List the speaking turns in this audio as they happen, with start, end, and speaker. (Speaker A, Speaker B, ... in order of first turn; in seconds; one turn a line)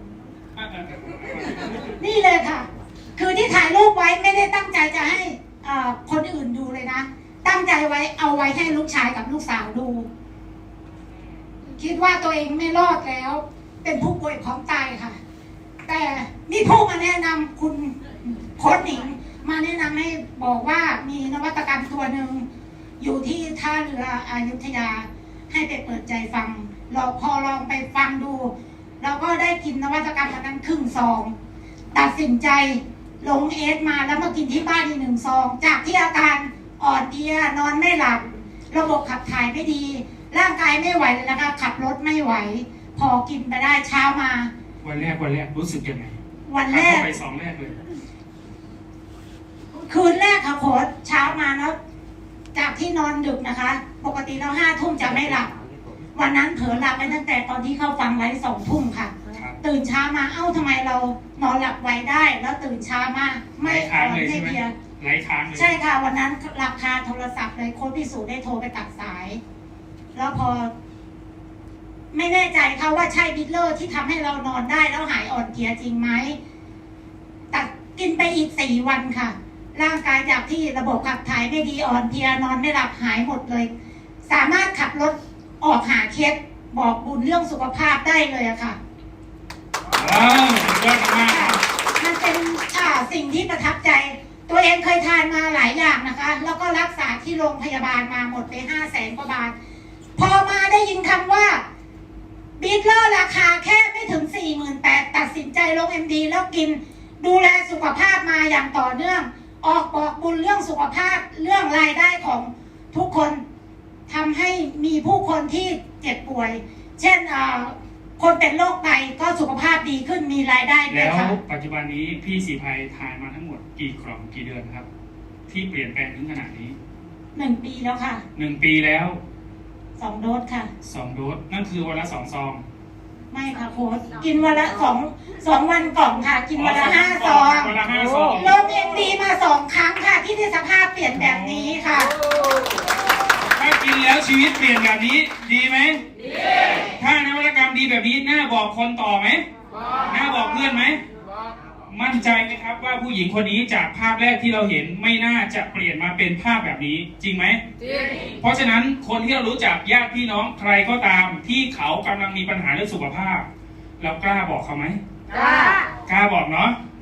Speaker A: 0.6-0.9
Speaker B: 2.0-10.1
Speaker B: 11.7-15.2
Speaker B: 15.9-22.4
Speaker B: 23.0-31.3
Speaker B: 31.9-44.5
Speaker A: 44.8-46.1
Speaker B: 46.5-47.1
Speaker A: 46.7-47.8
Speaker B: 49.8-51.7
Speaker B: 52.5-55.5
Speaker B: 56.1-64.7
Speaker A: 59.3-59.6
Speaker A: 63.6-65.7
Speaker B: 65.5-69.4
Speaker B: 70.1-70.7
Speaker B: 72.1-76.3
Speaker B: 77.5-83.7
Speaker B: 84.3-88.8
Speaker A: 89.9-91.6
Speaker B: 91.2-99.5
Speaker B: 100.2-101.6
Speaker B: 102.6-113.4
Speaker B: 114.1-121.3
Speaker A: 120.9-124.9
Speaker A: 125.5-126.8
Speaker B: 127.3-128.2
Speaker A: 128.3-129.2
Speaker B: 130.0-130.7
Speaker A: 130.8-132.6
Speaker B: 133.3-137.7
Speaker A: 136.6-138.5
Speaker B: 138.3-142.1
Speaker A: 141.1-141.8
Speaker A: 143.5-146.0
Speaker A: 146.8-149.4
Speaker A: 150.0-151.0
Speaker A: 151.9-157.6
Speaker A: 158.2-163.4
Speaker A: 164.0-165.0
Speaker B: 165.3-165.9
Speaker A: 166.0-166.8